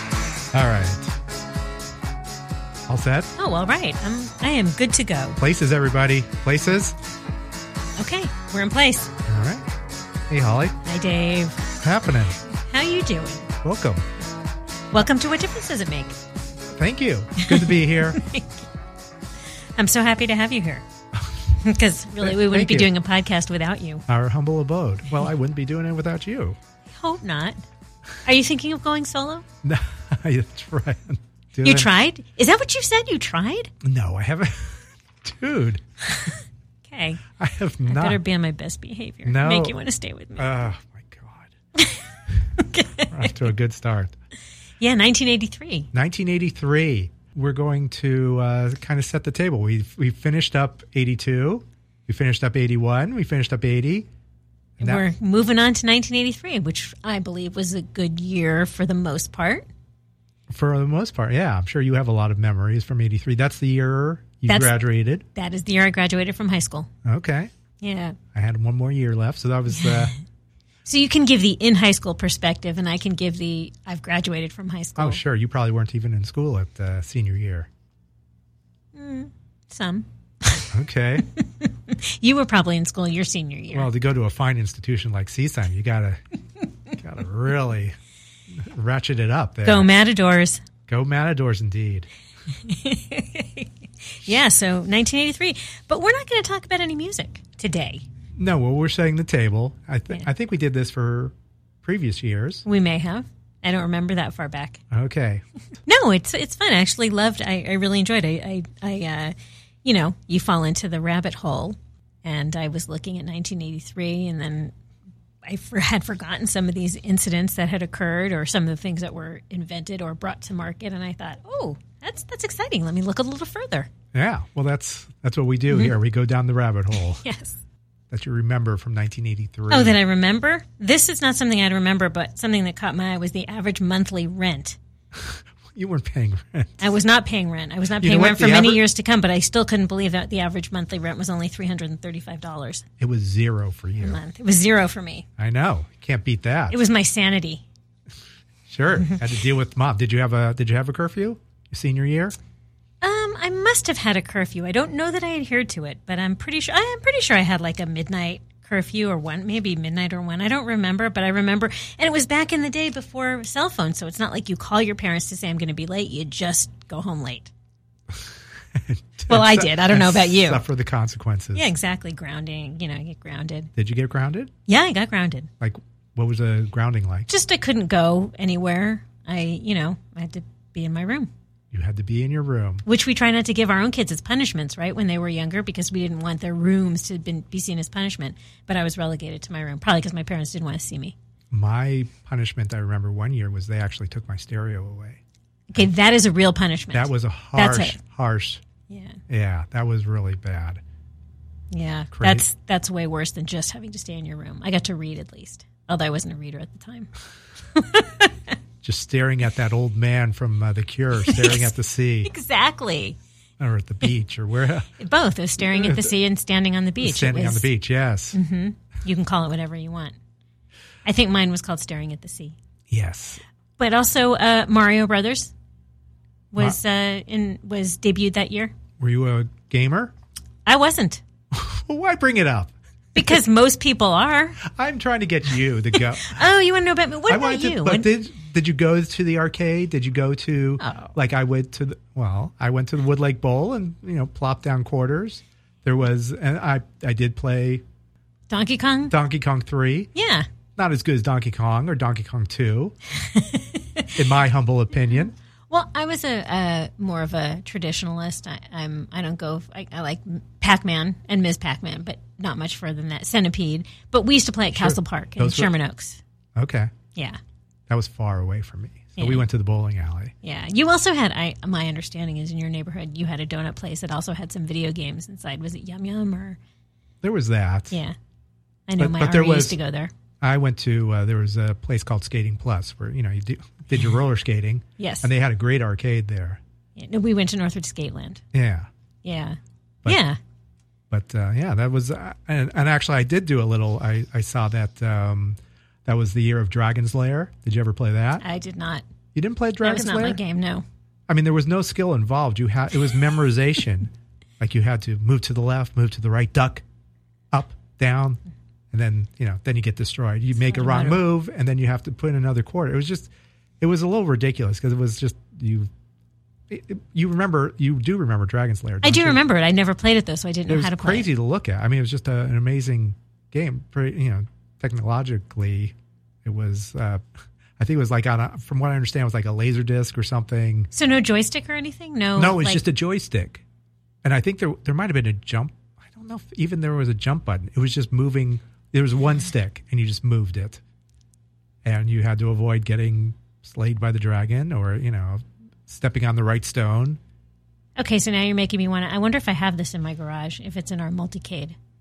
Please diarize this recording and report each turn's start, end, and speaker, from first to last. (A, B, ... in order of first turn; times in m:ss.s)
0:00.5-0:01.2 A
0:02.9-0:03.3 A
0:03.4-0:05.4 B
0:05.4-0:07.0 A
0:08.0-0:09.1 B
0:09.3-0:09.7 A
0:10.3-0:10.8 A
0:10.8-0:11.7 B
0:11.8-0:12.4 A
0:12.5-0:13.5 B
0:13.6-0:14.0 A
0:14.9-0:16.2 B
0:16.8-0:18.2 A
0:17.4-0:18.7 B
0:19.8-0:20.8 B
0:21.6-0:24.0 B
0:22.2-0:22.9 A
0:24.1-0:26.6 A
0:26.9-0:27.6 B
0:28.2-0:29.4 B
0:29.6-0:31.9 A
0:31.6-0:33.7 B
0:33.8-0:35.8 A
0:36.1-0:37.2 B
0:37.4-0:38.2 A
0:37.9-0:40.5 B
0:39.2-0:39.8 A
0:40.4-0:41.5 A
0:42.6-0:43.3 B
0:43.1-0:44.1 A
0:44.8-0:45.9 B
0:45.9-0:54.1 A
0:54.8-0:55.1 A
0:54.8-0:59.7 B
1:00.5-1:05.2 A
1:04.5-1:04.8 B
1:05.3-1:06.9 B
1:07.0-1:07.5 A
1:07.8-1:08.2 B
1:08.3-1:10.1 A
1:09.8-1:10.1 B
1:10.9-1:15.2 B
1:15.0-1:17.7 A
1:18.9-1:20.7 B
1:20.7-1:21.3 A
1:21.3-1:23.9 B
1:23.7-1:26.2 A
1:26.9-1:28.0 A
1:28.5-1:29.9 A
1:29.6-1:30.6 B
1:30.9-1:32.1 A
1:32.6-1:38.0 B
1:38.4-1:42.7 A
1:42.7-1:44.8 B
1:44.9-1:45.4 A
1:45.9-1:54.7 B
1:55.4-2:03.9 B
2:04.1-2:07.2 A
2:05.7-2:06.0 B
2:07.1-2:07.6 B
2:08.1-2:10.0 A
2:09.7-2:14.8 B
2:15.2-2:16.9 A
2:16.8-2:22.9 B
2:18.0-2:18.8 A
2:23.0-2:24.2 A
2:24.0-2:25.3 B
2:25.4-2:26.8 A
2:26.7-2:27.6 B
2:28.7-2:32.4 A
2:33.0-2:47.5 B
2:48.1-2:51.7 A
2:49.3-2:50.6 B
2:51.6-2:53.7 B
2:53.8-2:54.5 A
2:54.7-2:55.5 B
2:55.6-2:57.3 A
2:57.3-3:01.3 B
3:01.7-3:02.8 A
3:02.8-3:11.2 B
3:11.5-3:15.2 A
3:15.7-3:18.0 B
3:16.9-3:18.6 A
3:18.9-3:19.2 B
3:19.3-3:20.8 A
3:21.7-3:27.1 B
3:22.1-3:22.5 A
3:27.8-3:28.4 B
3:28.8-3:32.3 A
3:31.3-3:31.7 B
3:32.2-3:33.2 B
3:33.6-3:34.9 A
3:35.0-3:37.7 B
3:35.6-3:36.1 A
3:37.0-3:38.4 A
3:38.3-3:40.2 B
3:41.0-3:42.6 B
3:42.9-3:43.4 A
3:43.8-3:45.5 B
3:46.5-3:48.7 B
3:49.0-3:50.1 A
3:50.7-3:51.2 B
3:51.5-3:53.3 A
3:53.2-3:54.6 B
3:54.6-3:56.4 A
3:56.2-3:58.1 B
3:57.3-4:07.8 A
4:00.8-4:01.1 B
4:08.5-4:09.2 B
4:09.1-4:10.1 A
4:10.2-4:10.5 B
4:10.8-4:13.0 A
4:13.2-4:14.1 B
4:14.2-4:15.3 A
4:15.7-4:26.2 B
4:24.7-4:25.7 A
4:26.6-4:26.9 A
4:27.9-4:30.3 A
4:29.2-4:29.4 B
4:30.4-4:36.6 B
4:37.2-4:38.0 A
4:38.9-4:40.1 B
4:39.0-4:39.8 A
4:40.4-4:46.6 A
4:45.0-4:45.3 B
4:47.0-4:48.4 B
4:48.5-4:48.9 A
4:49.2-4:50.4 B
4:51.1-4:58.4 A
4:58.4-4:59.0 B
4:59.3-5:00.4 A
4:59.8-5:00.8 B
5:01.3-5:06.8 A
5:07.5-5:08.4 A
5:08.9-5:15.9 A
5:10.6-5:11.3 B
5:16.7-5:19.4 A
5:19.0-5:21.3 B
5:20.7-5:27.2 A
5:27.8-5:30.9 A
5:30.9-5:32.8 B
5:32.4-5:33.6 A
5:34.2-5:40.8 A
5:41.8-5:47.2 A
5:48.0-5:51.8 B